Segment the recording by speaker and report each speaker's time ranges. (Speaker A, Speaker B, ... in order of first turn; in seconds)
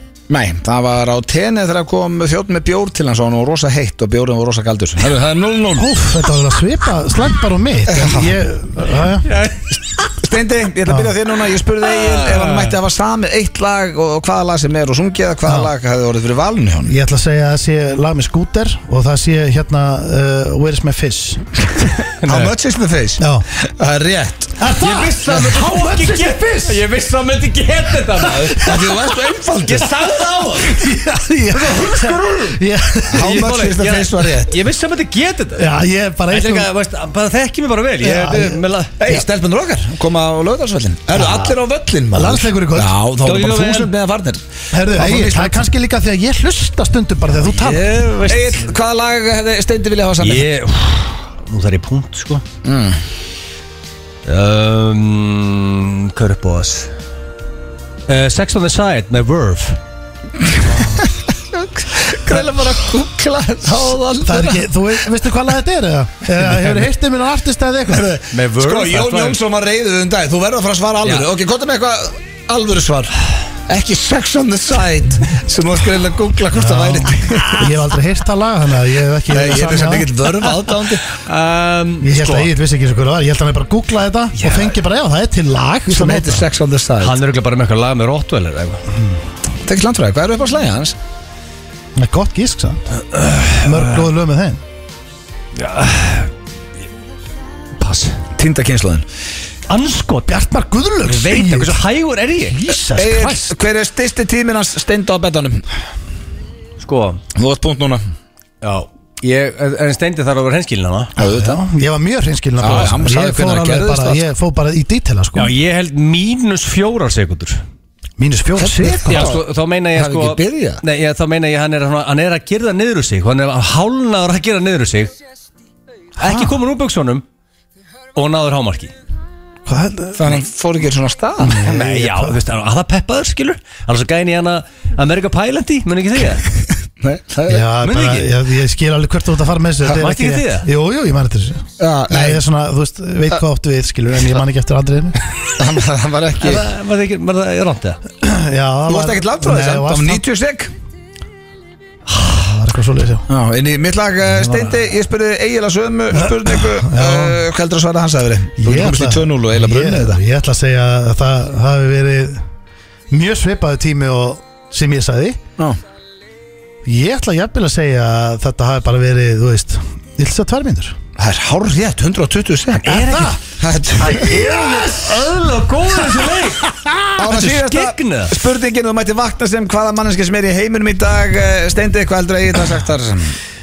Speaker A: 0.3-5.9, 7.9-8.4, 10.2-16.9, 22.2-24.6, 28.2-29.9, 33.1-34.6, 39.0-44.4, 44.9-45.7, 47.8-50.5, 52.6-53.0, 61.0-64.6, 67.9-73.2, 73.7-77.7, 79.3-81.0, 84.4-84.7, 85.9-87.2, 89.7-91.0, 98.4-99.0, 102.9-105.6, 107.3-108.0, 111.2-111.6, 112.6-114.2, 118.6-120.8, 130.2-131.8, 137.0-137.7, 141.8-142.4, 145.6-146.7, 148.9-150.7, 153.3-160.2, 171.2-172.9, 173.6-174.3, 177.2-183.4
Speaker B: 5.8-9.3, 10.9-11.2, 15.5-15.7, 16.9-21.5, 23.2-23.5, 24.6-26.8, 28.5-28.9, 30.6-33.4, 35.5-36.7, 38.0-39.2, 41.1-41.6, 42.1-43.4, 44.7-47.9, 64.2-68.2, 76.5-80.1, 82.0-86.5, 92.0-92.9, 93.6-94.6, 100.3-101.8, 102.5-103.6, 111.2-115.5, 118.2-119.4, 126.2-126.6, 129.7-130.4, 131.4-132.4, 137.5-145.2, 148.2-150.2, 152.2-153.3, 156.1-157.4, 158.6-162.4, 163.1-165.4, 166.8-171.0, 172.8-173.4, 174.1-175.3, 176.2-177.0
Speaker C: 9.2-9.8, 11.9-12.8, 22.2-22.5, 24.8-28.8, 29.6-30.9, 31.5-32.6, 33.1-35.7, 36.3-39.0, 43.3-43.9, 47.6-48.7, 50.2-52.4, 54.2-56.9, 58.1-59.8, 68.3-69.4, 81.1-82.5, 87.0-88.8, 93.0-94.0, 95.5-96.3, 97.8-98.3, 99.7-100.4, 101.0-102.6, 106.8-107.2, 108.6-111.1, 112.7-113.0, 115.4-117.6, 119.1-125.1, 126.2-127.2, 128.2-128.9, 131.6-136.4, 137.8-138.3, 139.8-140.7, 146.4-148.0, 154.3-154.8, 172.8-173.4, 174.0-178.4